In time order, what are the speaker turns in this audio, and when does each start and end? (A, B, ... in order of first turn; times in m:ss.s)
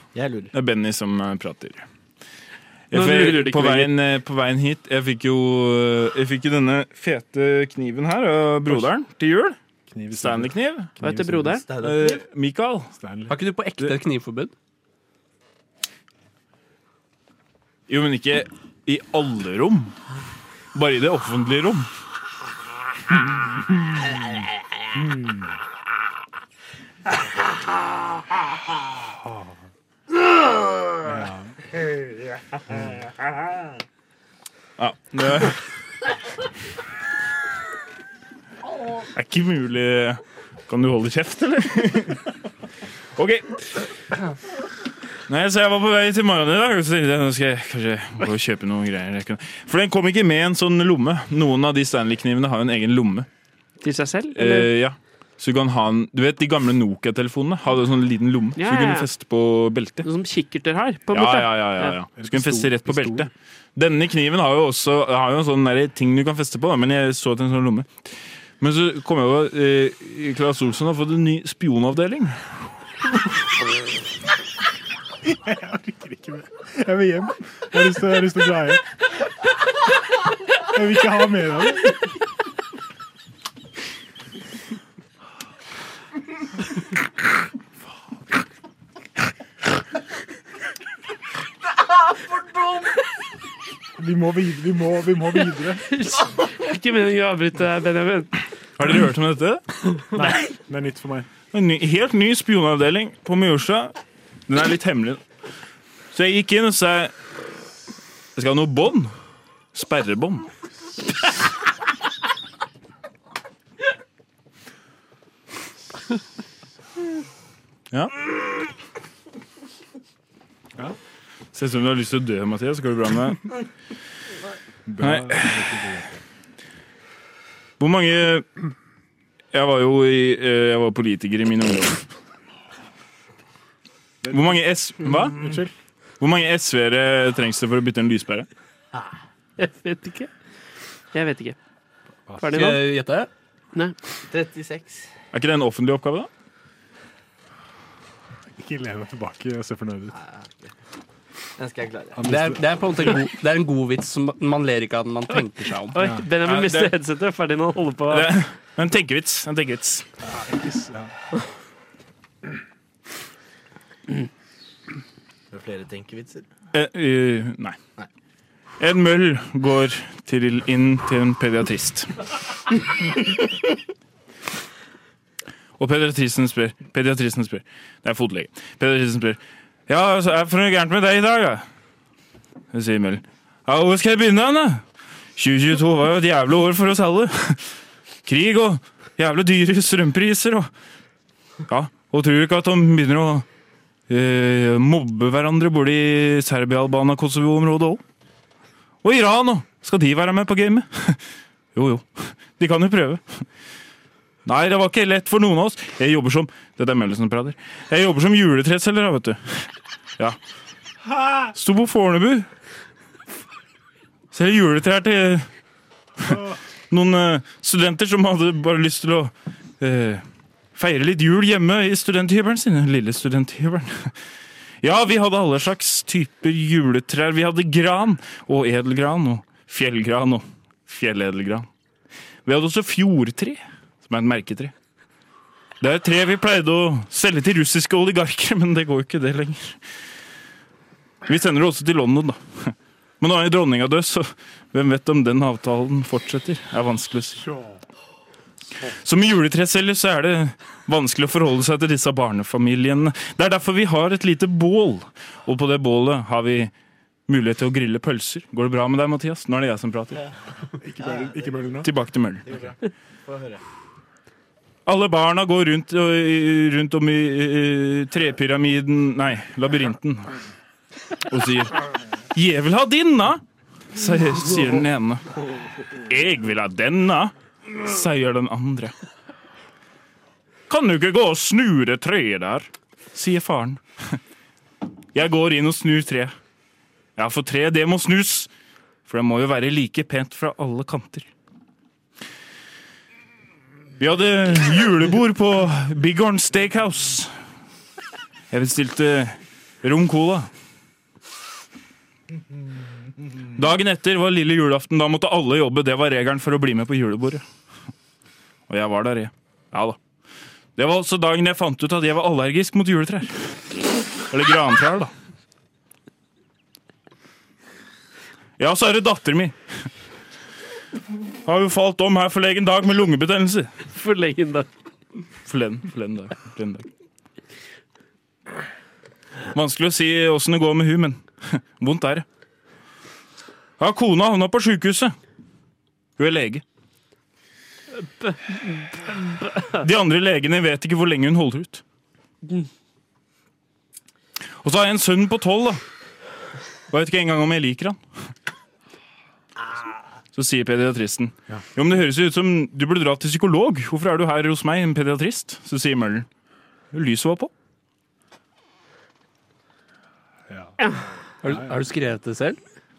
0:00.1-0:00.5 A
0:00.5-0:01.9 B
0:02.9-0:09.6 B
0:02.9-0:03.7 C
0:03.3-0:03.9 D
0:09.9-0:11.6 E
0:10.1-0:10.9 B
0:11.0-0:11.6 C
0:11.6-0:12.2 A
0:11.8-0:12.9 B
0:13.0-0:13.3 E
0:13.3-0:14.5 D
0:17.9-0:19.9 B
0:20.7-0:21.9 B
0:25.0-0:25.3 E
0:31.0-0:31.5 E
0:34.8-0:35.6 B
0:39.1-0:42.2 B
0:43.2-0:43.8 B
0:45.3-0:53.3 B
0:53.8-0:54.7 C
0:54.3-1:00.1 B
0:58.6-0:59.1 C
1:00.0-1:02.0 C
1:01.1-1:08.1 B
1:02.2-1:03.3 E
1:08.6-1:12.4 B
1:15.2-1:18.9 E
1:20.7-1:22.0 E
1:34.0-1:35.9 E
1:35.9-1:38.3 C
1:38.8-1:39.6 B
1:40.1-1:41.3 E
1:41.5-1:44.0 B
1:44.5-1:45.2 B
1:46.1-1:47.1 B
1:48.4-1:49.1 B
1:49.7-1:50.5 B
2:01.5-2:03.4 B
2:04.9-2:06.1 E
2:05.0-2:05.8 B
2:07.8-2:08.5 B
2:09.5-2:12.0 B
2:14.2-2:15.7 E
2:14.3-2:15.5 B
2:16.2-2:18.5 B
2:19.6-2:20.3 C
2:21.1-2:21.6 C
2:22.3-2:22.5 E
2:22.4-2:22.9 C
2:22.5-2:23.3 D
2:24.3-2:25.1 A
2:25.3-2:26.3 B
2:28.6-2:30.2 E
2:30.1-2:30.7 A
2:31.6-2:32.3 A
2:32.2-2:32.6 E
2:32.2-2:36.0 D
2:35.3-2:38.4 C
2:36.0-2:36.2 E
2:36.4-2:36.9 B
2:38.1-2:40.0 B
2:40.3-2:41.1 E
2:45.5-2:46.4 A
2:46.7-2:47.8 B
2:48.8-2:52.1 B
2:55.8-3:01.6 B
3:02.7-3:04.8 B
3:05.4-3:07.6 B
3:08.2-3:10.7 B
3:11.7-3:13.4 B
3:14.1-3:18.0 B
3:19.0-3:21.2 B
3:21.7-3:23.4 B
3:24.4-3:30.4 B
3:31.5-3:32.5 B
3:34.3-3:35.5 B
3:36.2-3:36.6 E
3:36.9-3:40.2 B
3:40.7-3:44.2 B
3:44.8-3:51.7 B
3:52.4-3:54.7 B
3:55.8-3:59.8 B
4:01.2-4:07.4 B
4:08.9-4:16.7 B
4:17.3-4:20.2 B
4:20.8-4:21.9 E
4:21.0-4:21.7 A
4:21.8-4:22.4 B
4:22.4-4:23.6 A
4:24.8-4:30.3 B
4:31.3-4:31.8 B
4:32.3-4:33.4 B
4:33.9-4:35.2 B
4:36.1-4:38.9 B
4:40.7-4:44.2 B
4:45.1-4:46.3 B
4:47.2-4:48.5 B
4:49.0-4:51.3 B
4:54.0-4:57.3 B
4:58.5-5:00.5 B
5:03.5-5:07.4 B
5:08.7-5:10.0 B
5:10.8-5:15.1 B
5:18.6-5:19.9 B
5:21.4-5:23.7 B
5:23.9-5:24.7 C
5:25.4-5:26.8 B
5:29.5-5:32.2 B
5:33.8-5:35.1 B
5:36.2-5:36.6 B
5:38.0-5:39.8 C
5:39.8-5:41.8 B
5:44.6-5:45.8 B
5:46.9-5:48.0 B
5:50.3-5:56.3 B
5:56.9-5:57.5 B
6:00.5-6:00.8 E
6:01.4-6:02.6 D
6:01.4-6:01.7 E